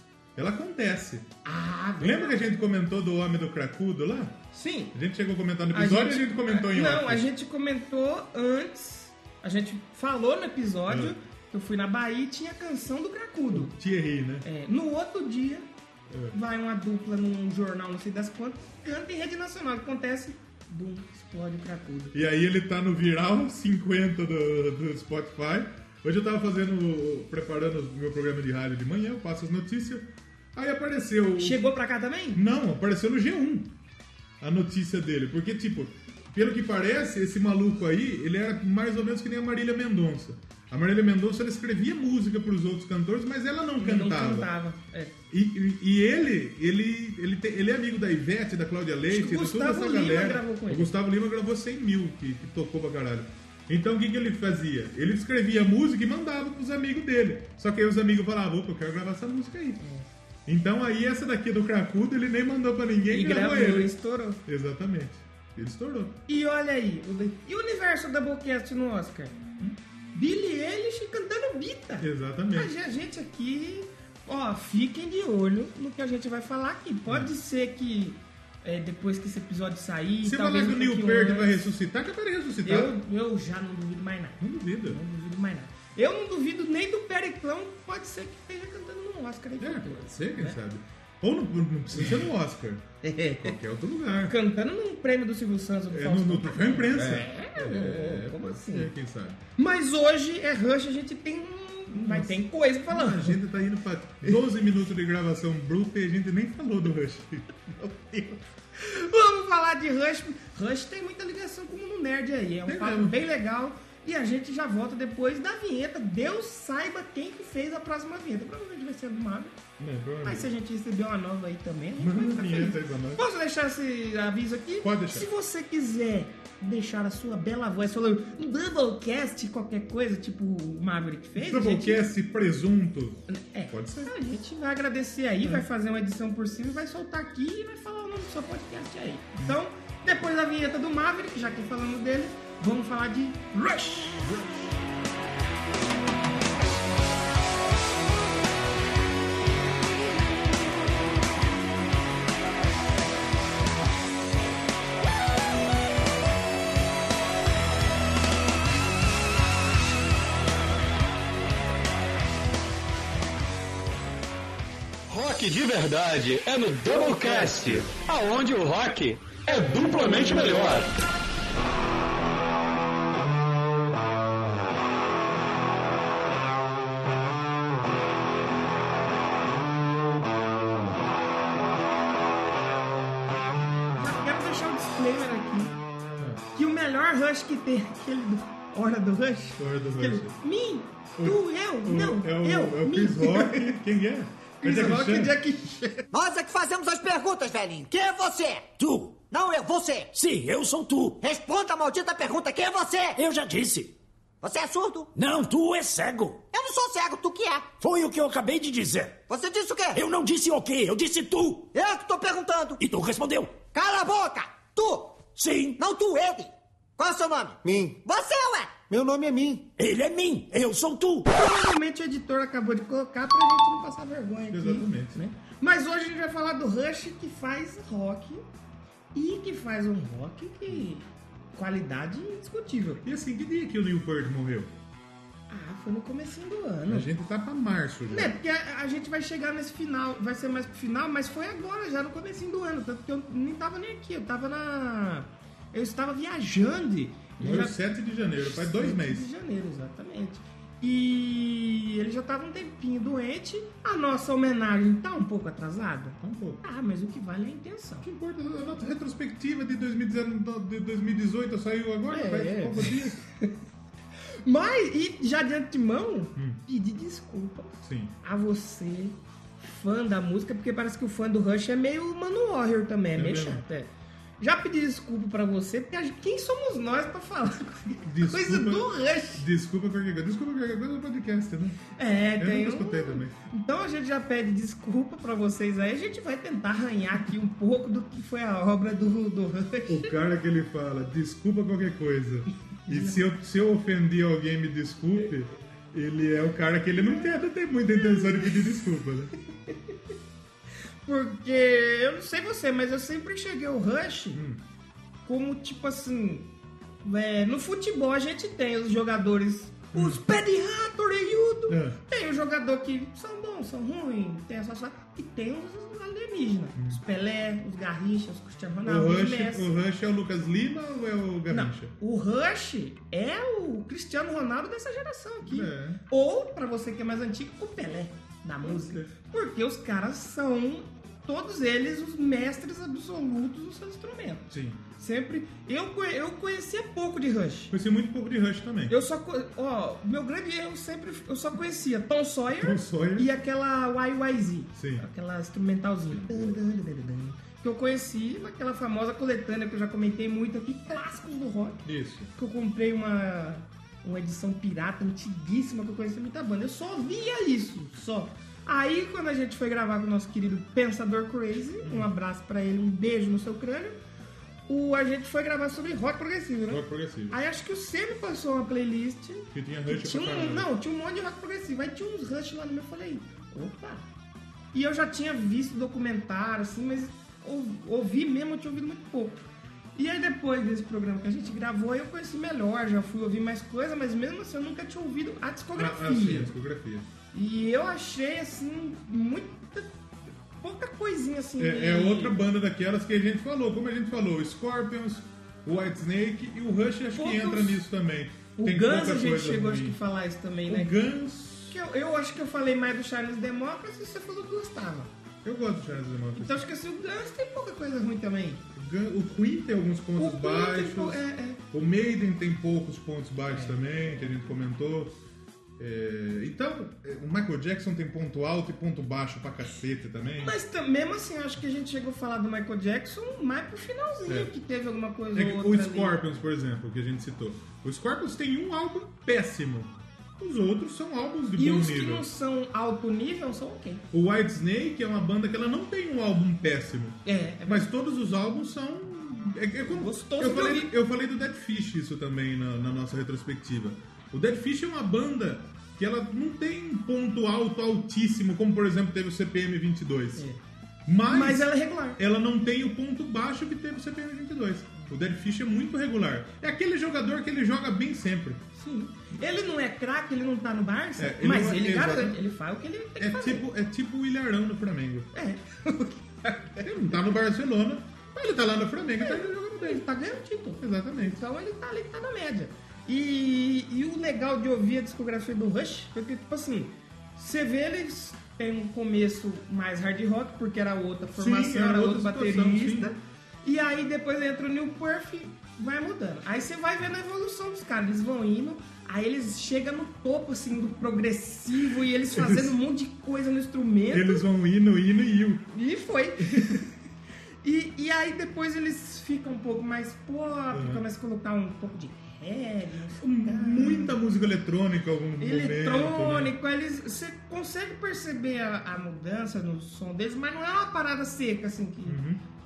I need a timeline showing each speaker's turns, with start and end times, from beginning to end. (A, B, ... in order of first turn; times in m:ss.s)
0:00.4-0:01.3 A
0:01.4-0:02.5 B
0:02.0-0:07.2 A
0:04.5-0:04.9 B
0:05.7-0:13.7 B
0:10.9-0:11.1 A
0:13.5-0:14.4 A
0:14.4-0:15.7 B
0:16.1-0:16.4 A
0:16.3-0:22.1 B
0:22.1-0:31.6 A
0:31.4-0:32.4 B
0:32.3-0:33.7 A
0:34.4-0:44.5 A
0:43.8-0:45.2 B
0:45.3-0:59.8 A
0:49.1-0:50.9 B
0:59.8-1:00.1 B
1:00.4-1:03.9 A
1:03.1-1:04.4 B
1:04.4-1:06.2 A
1:06.3-1:09.4 B
1:10.1-1:21.6 B
1:12.0-1:12.7 A
1:20.2-1:22.9 A
1:22.6-1:30.6 B
1:24.4-1:25.0 A
1:29.6-1:32.8 A
1:33.0-1:33.6 B
1:33.4-1:34.4 A
1:34.3-1:38.9 B
1:35.9-1:39.4 A
1:39.6-1:43.4 B
1:42.0-1:47.4 A
1:47.7-1:59.6 B
1:52.6-1:53.2 A
1:59.8-2:00.5 A
2:00.2-2:12.1 B
2:02.0-2:03.2 A
2:04.8-2:05.3 A
2:11.4-2:14.1 A
2:13.3-2:24.4 B
2:45.1-2:50.9 C
3:04.0-3:05.8 B
3:06.2-3:06.4 A
3:06.5-3:13.8 B
3:09.6-3:10.4 A
3:11.2-3:15.4 A
3:14.6-3:16.0 B
3:16.1-3:18.7 D
3:18.8-3:19.2 E
3:19.3-3:20.1 D
3:20.1-3:21.2 E
3:21.2-3:23.2 D
3:23.2-3:23.9 E
3:24.4-3:25.1 D
3:25.1-3:26.4 E
3:26.5-3:27.7 D
3:27.8-3:29.2 E
3:29.3-3:30.0 D
3:29.9-3:31.7 E
3:31.7-3:32.8 D
3:32.8-3:33.6 E
3:33.7-3:35.2 D
3:35.4-3:35.8 E
3:35.8-3:39.7 D
3:39.8-3:41.3 E
3:41.3-3:48.4 B
3:44.5-3:45.2 A
3:49.1-3:53.0 B
3:53.0-3:54.7 A
3:55.5-3:57.1 B
3:56.9-3:58.4 A
3:58.1-4:07.8 B
4:07.4-4:09.3 A
4:08.4-4:18.0 B
4:16.2-4:16.6 A
4:18.0-4:23.2 A
4:22.1-4:23.5 B
4:24.4-4:39.4 B
4:27.8-4:28.1 A
4:33.1-4:33.6 A
4:38.0-4:41.8 A
4:41.9-4:50.1 B
4:42.4-4:43.3 A
4:49.9-4:59.3 A
4:52.9-4:53.2 B
4:57.0-4:57.3 B
4:57.9-4:58.6 B
5:01.0-5:04.4 B
5:04.3-5:04.6 A
5:05.2-5:06.5 B
5:07.0-5:19.7 B
5:09.9-5:10.2 A
5:11.7-5:12.0 A
5:16.7-5:17.0 A
5:18.8-5:21.9 A
5:21.5-5:37.7 B
5:25.4-5:26.0 A
5:28.6-5:29.1 A
5:34.5-5:34.8 A
5:37.7-5:39.0 A
5:38.9-6:04.0 B
5:42.6-5:43.3 A
5:44.7-5:45.0 A
5:46.1-5:46.6 A
5:51.8-5:52.3 A
6:01.8-6:02.1 A
6:04.7-6:14.0 B
6:06.7-6:07.4 A
6:09.5-6:10.7 A
6:14.7-6:26.5 B
6:25.8-6:27.1 A
6:27.3-6:29.9 B
6:30.5-6:32.4 B
6:31.6-6:40.0 A
6:37.1-6:37.9 B
6:38.6-6:41.0 B
6:40.7-6:41.8 A
6:41.7-6:45.1 B
6:45.4-6:46.6 A
6:46.3-6:48.6 B
6:48.7-6:55.2 A
6:50.2-6:51.6 B
6:53.5-6:54.4 B
6:55.8-7:00.6 A
7:00.4-7:06.2 B
7:04.3-7:04.5 A
7:05.3-7:12.2 A
7:11.6-7:14.0 B
7:14.1-7:30.4 A
7:17.2-7:17.9 B
7:19.8-7:20.9 B
7:31.0-7:38.6 A
7:31.3-7:32.2 B
7:38.8-7:43.7 B
7:41.2-7:42.4 A
7:43.2-7:45.3 A
7:45.3-7:47.2 B
7:46.8-7:50.0 A
7:49.2-8:14.4 B
7:50.8-7:51.4 A
8:01.4-8:03.1 A
8:12.3-8:12.8 A
8:14.1-8:15.6 A
8:15.7-8:16.9 B
8:16.4-8:16.8 A
8:17.6-8:24.2 B
8:20.7-8:21.0 A
8:23.2-8:26.5 A
8:25.4-8:32.2 B
8:32.0-8:32.4 A